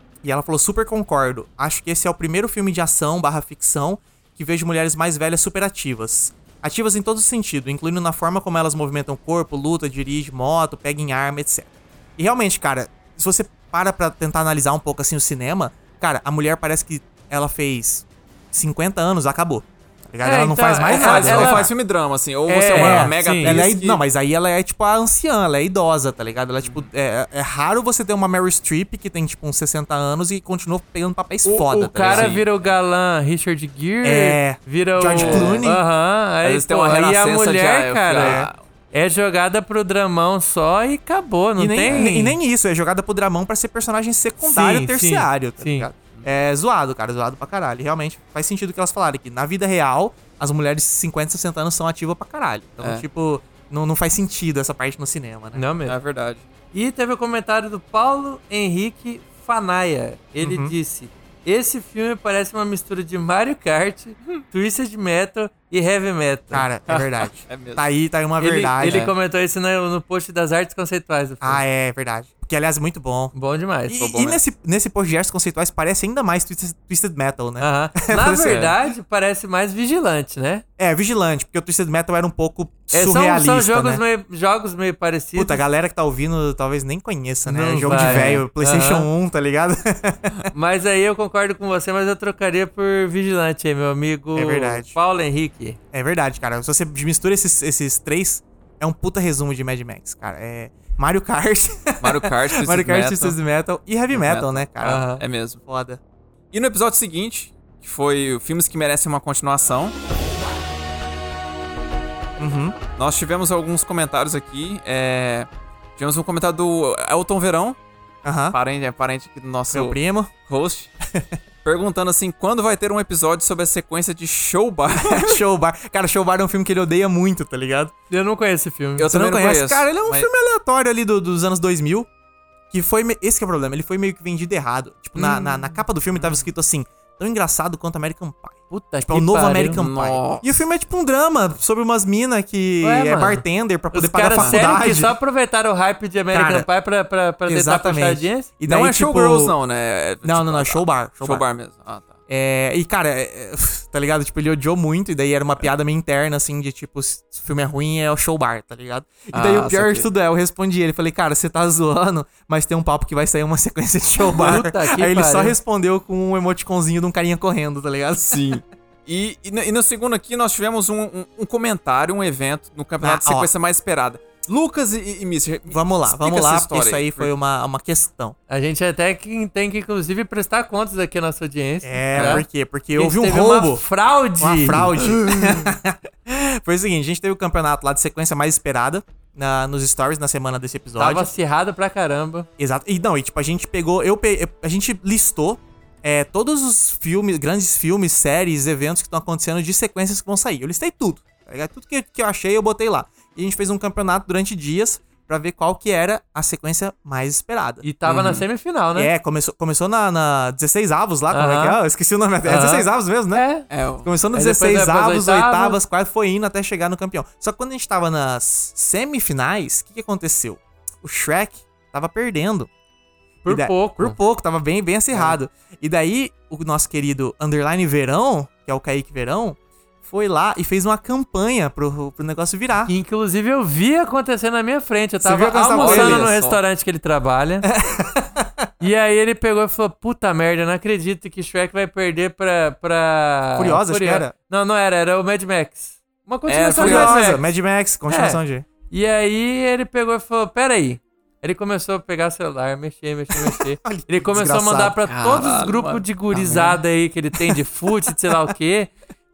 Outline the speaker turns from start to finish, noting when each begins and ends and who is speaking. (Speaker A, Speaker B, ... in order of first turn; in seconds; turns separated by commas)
Speaker A: 0.2-21.7, Speaker B: 20.2-21.7, Speaker C: 20.9-24.0, Speaker A: 22.5-32.4, Speaker B: 22.7-23.6, Speaker C: 26.6-26.9, Speaker B: 31.5-42.4, Speaker C: 32.1-32.7, Speaker A: 34.0-35.8, Speaker C: 35.2-35.7, Speaker C: 36.4-38.6, Speaker A: 38.2-38.5, Speaker A: 41.6-55.6, Speaker C: 41.9-42.1, Speaker B: 44.4-45.9, Speaker B: 55.5-56.0, Speaker C: 55.9-56.4, Speaker B: 56.7-66.7, Speaker A: 60.4-60.8, Speaker A: 66.5-69.1, Speaker C: 66.9-67.9, Speaker B: 68.4-71.6, Speaker C: 68.8-69.1, Speaker A: 71.4-73.3, Speaker B: 73.3-74.3, Speaker A: 73.9-78.7, Speaker B: 77.6-80.6, Speaker C: 78.5-78.7, Speaker A: 80.8-84.0, Speaker B: 82.9-85.6, Speaker A: 85.3-90.5, Speaker B: 87.5-89.1, Speaker C: 87.9-88.4, Speaker B: 90.5-95.8, Speaker A: 94.4-95.0, Speaker A: 95.9-106.0, Speaker C: 102.0-103.4, Speaker C: 104.1-104.7, Speaker B: 104.8-105.2, Speaker C: 105.2-105.6, Speaker C: 106.5-110.0, Speaker A: 112.4-112.8, Speaker C: 113.0-117.8, Speaker A: 118.2-118.6, Speaker C: 118.5-120.9, Speaker A: 119.7-120.3, Speaker A: 121.1-121.4, Speaker C: 121.7-125.4, Speaker A: 125.0-127.9, Speaker B: 128.1-129.1, Speaker C: 129.0-130.3, Speaker A: 129.1-132.1, Speaker A: 132.7-145.2, Speaker B: 135.2-135.8, Speaker C: 136.2-136.4, Speaker B: 138.7-139.8, Speaker C: 139.8-140.7, Speaker B: 142.8-148.5, Speaker C: 144.3-144.6, Speaker A: 146.3-146.7, Speaker A: 147.5-149.6, Speaker C: 148.7-152.2, Speaker A: 150.2-151.4, Speaker A: 152.3-168.6, Speaker C: 159.3-160.1, Speaker B: 164.4-165.6, Speaker C: 168.3-177.3, Speaker A: 173.0-173.5, Speaker A: 175.7-178.4, Speaker B: 178.5-185.4, Speaker A: 181.8-183.8, Speaker C: 182.2-182.4, Speaker A: 184.4-191.3, Speaker B: 191.0-192.5, Speaker A: 192.6-207.8, Speaker B: 207.8-209.1, Speaker C: 208.1-208.4, Speaker A: 208.9-213.4, Speaker B: 211.3-211.8, Speaker B: 212.4-213.7, Speaker C: 213.7-214.1, Speaker A: 214.0-222.7, Speaker B: 214.3-215.8, Speaker B: 223.4-224.2, Speaker A: 223.5-232.9, Speaker B: 232.8-237.7, Speaker A: 235.2-236.3, Speaker C: 235.8-236.6, Speaker A: 237.7-238.7, Speaker B: 238.8-247.4, Speaker A: 243.6-244.3, Speaker C: 246.5-247.2, Speaker A: 246.8-248.7, Speaker B: 248.1-258.9, Speaker A: 253.3-255.0, Speaker C: 255.1-256.8